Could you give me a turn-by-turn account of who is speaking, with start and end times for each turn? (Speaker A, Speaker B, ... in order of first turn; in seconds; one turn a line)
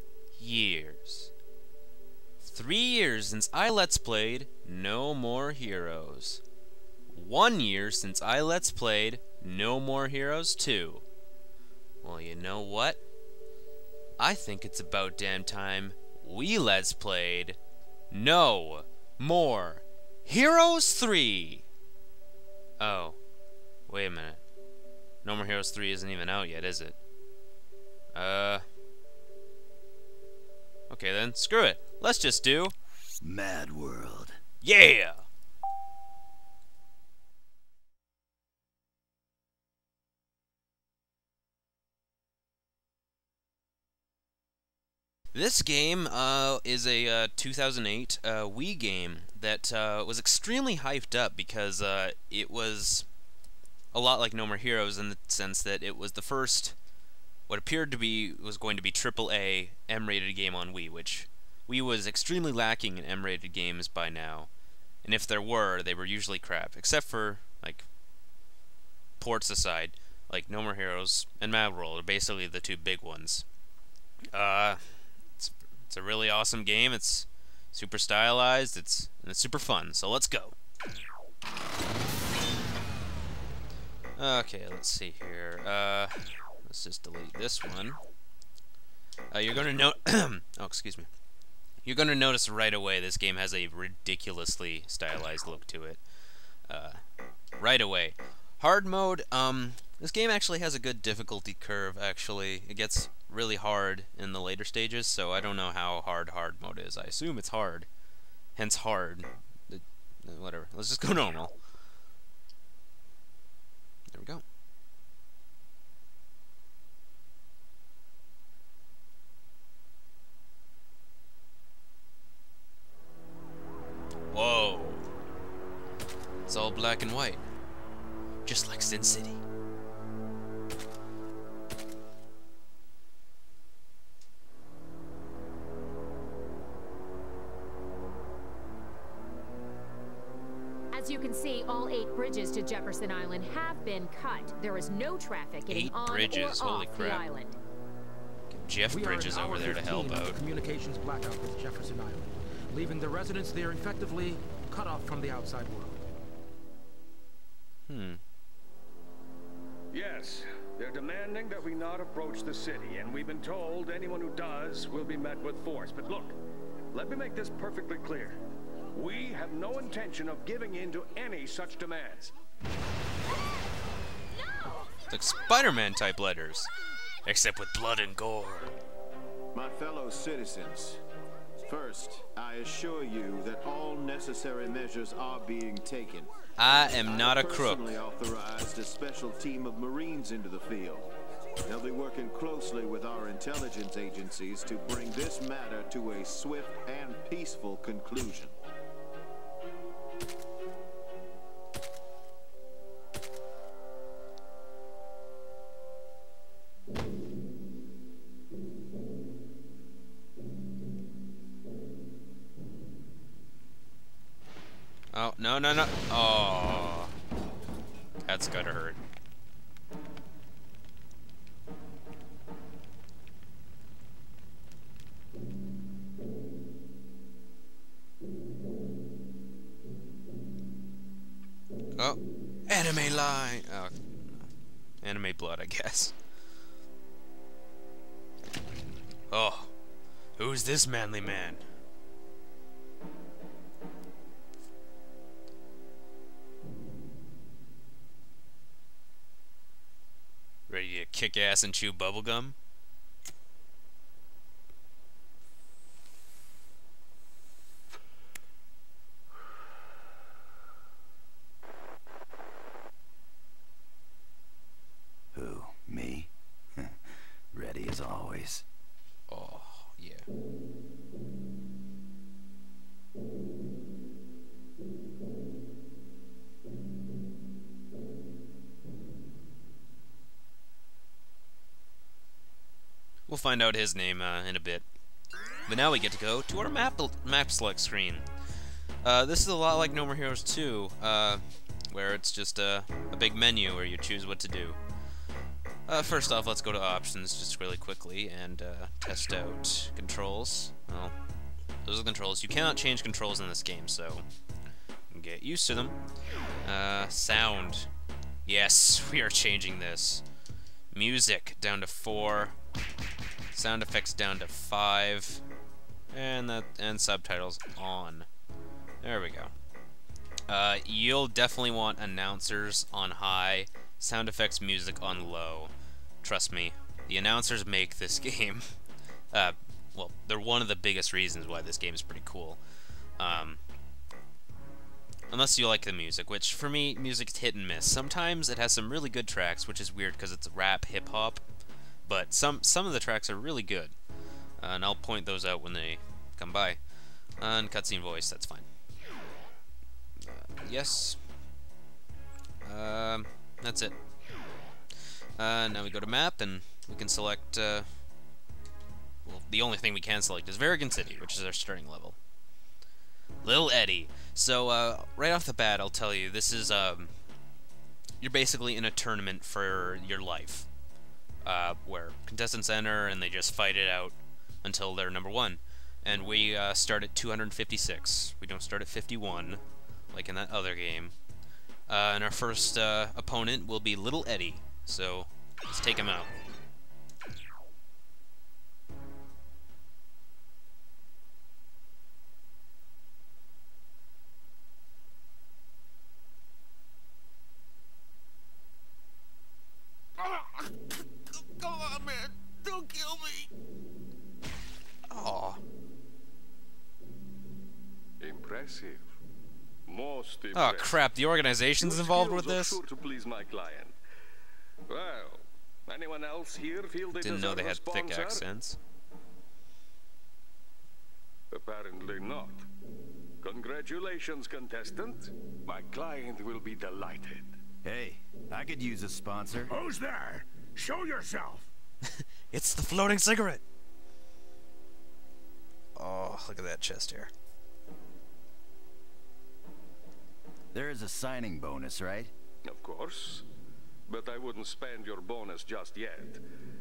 Speaker A: 0.3-1.3
Speaker A: 2.4-6.4
Speaker A: 7.1-11.0
Speaker A: 12.0-13.0
Speaker A: 14.2-17.6
Speaker A: 18.1-21.6
Speaker A: 22.8-23.2
Speaker A: 23.9-24.4
Speaker A: 25.2-27.0
Speaker A: 28.1-28.6
Speaker A: 30.9-32.7
Speaker B: 33.2-34.4
Speaker A: 34.6-35.2
Speaker A: 45.3-53.0
Speaker A: 53.9-56.7
Speaker A: 57.5-64.5
Speaker A: 65.0-67.9
Speaker A: 69.2-73.5
Speaker A: 74.3-74.8
Speaker A: 75.4-80.5
Speaker A: 84.2-88.0
Speaker A: 89.3-91.1
Speaker A: 91.8-96.0
Speaker A: 96.7-97.0
Speaker A: 97.6-107.9
Speaker A: 108.6-111.5
Speaker A: 114.1-114.4
Speaker A: 124.3-125.0
Speaker A: 126.5-127.4
Speaker A: 128.4-129.4
Speaker C: 140.9-147.6
Speaker A: 145.7-147.3
Speaker A: 148.5-150.4
Speaker D: 148.9-156.0
Speaker A: 157.9-158.2
Speaker E: 159.9-166.4
Speaker E: 166.9-168.4
Speaker E: 168.9-172.3
Speaker A: 175.1-176.7
Speaker A: 177.2-178.8
Speaker F: 179.5-181.0
Speaker F: 181.7-198.6
Speaker A: 186.6-188.0
Speaker A: 215.1-217.1
Speaker A: 218.2-219.0
Speaker A: 232.0-233.9
Speaker A: 235.0-236.1
Speaker A: 239.3-239.7
Speaker A: 240.4-241.6
Speaker A: 250.7-252.6
Speaker B: 265.3-267.0
Speaker B: 267.5-268.6
Speaker A: 269.3-270.3
Speaker A: 283.3-284.8
Speaker A: 285.7-288.2
Speaker A: 289.0-294.8
Speaker A: 295.9-301.1
Speaker A: 301.8-304.2
Speaker A: 305.1-306.0
Speaker A: 306.6-307.9
Speaker A: 308.4-310.2
Speaker A: 310.9-312.5
Speaker A: 313.5-315.4
Speaker A: 316.1-318.3
Speaker A: 319.0-319.5
Speaker A: 320.5-328.7
Speaker A: 329.3-332.6
Speaker A: 333.2-333.6
Speaker A: 335.3-341.4
Speaker A: 342.1-343.9
Speaker A: 344.6-346.8
Speaker A: 347.4-348.7
Speaker A: 350.2-351.2
Speaker A: 352.6-353.9
Speaker A: 355.4-357.9
Speaker A: 359.2-362.1
Speaker A: 363.4-367.1
Speaker A: 368.2-370.7
Speaker A: 371.4-381.1
Speaker A: 381.9-386.3
Speaker A: 405.1-405.6
Speaker E: 408.2-409.1
Speaker E: 409.9-411.1
Speaker A: 410.5-412.8
Speaker E: 411.8-413.9
Speaker E: 414.9-418.4
Speaker A: 417.1-418.8
Speaker E: 421.5-422.6
Speaker E: 423.4-427.6
Speaker B: 427.8-429.8
Speaker D: 429.7-431.7
Speaker A: 432.0-433.6
Speaker A: 435.9-437.3
Speaker B: 440.7-442.3
Speaker E: 442.6-443.4
Speaker E: 444.1-446.4